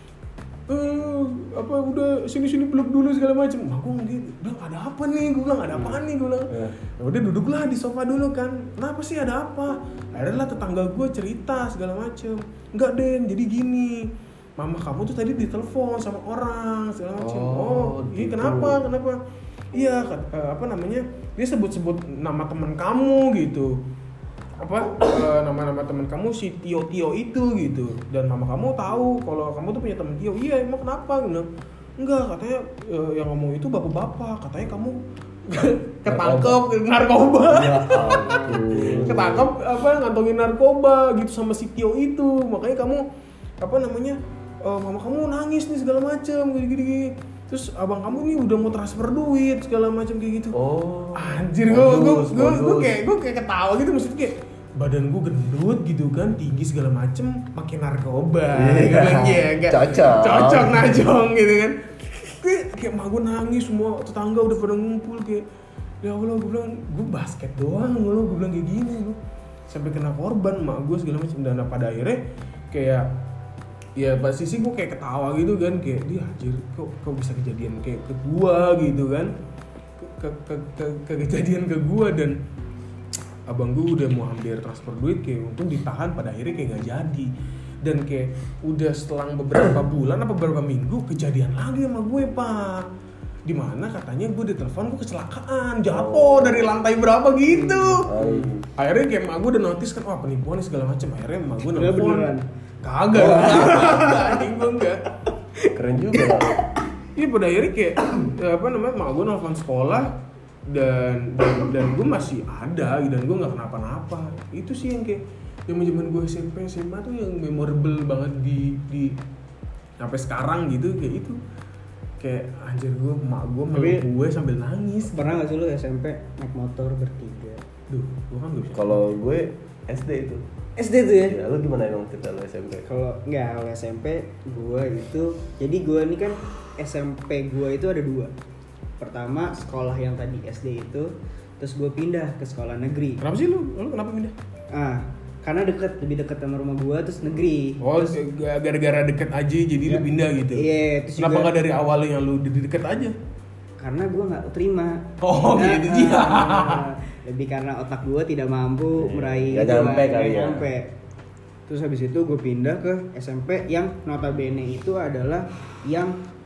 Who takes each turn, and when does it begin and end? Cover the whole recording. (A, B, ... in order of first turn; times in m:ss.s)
0:00.7-0:19.2 A
0:06.5-0:06.7 B
0:17.2-0:18.8 B
0:19.7-0:23.8 A
0:24.6-0:31.4 A
0:32.0-0:35.0 A
0:35.5-0:43.0 A
0:36.0-0:36.6 B
0:37.5-0:39.5 B
0:43.6-0:50.5 A
0:50.5-0:53.0 B
0:51.1-1:05.4 A
0:58.5-1:01.0 B
1:06.0-1:09.2 A
1:09.7-1:12.2 A
1:12.7-1:13.1 A
1:14.0-1:19.3 A
1:20.0-1:22.4 A
1:23.5-1:27.3 A
1:27.8-1:32.8 A
1:33.4-1:42.3 A
1:35.9-1:36.7 B
1:37.5-1:38.5 C
1:38.1-1:38.6 B
1:41.7-1:42.4 C
1:42.8-1:45.0 A
1:43.2-1:44.5 C
1:43.2-1:43.6 B
1:45.6-1:46.8 C
1:45.7-1:46.6 B
1:47.2-1:50.1 A
1:50.7-1:59.2 A
2:00.0-2:01.4 A
2:02.2-2:05.2 A
2:03.7-2:04.0 C
2:05.0-2:07.6 C
2:07.9-2:09.0 A
2:08.7-2:10.4 B
2:10.8-2:11.4 C
2:11.2-2:12.8 B
2:12.8-2:18.3 C
2:19.0-2:23.2 C
2:23.2-2:24.3 A
2:24.7-2:28.1 C
2:27.8-2:30.6 A
2:29.9-2:31.5 C
2:31.2-2:33.1 A
2:33.8-2:40.9 C
2:35.2-2:36.8 A
2:39.0-2:40.7 B
2:41.7-2:46.2 C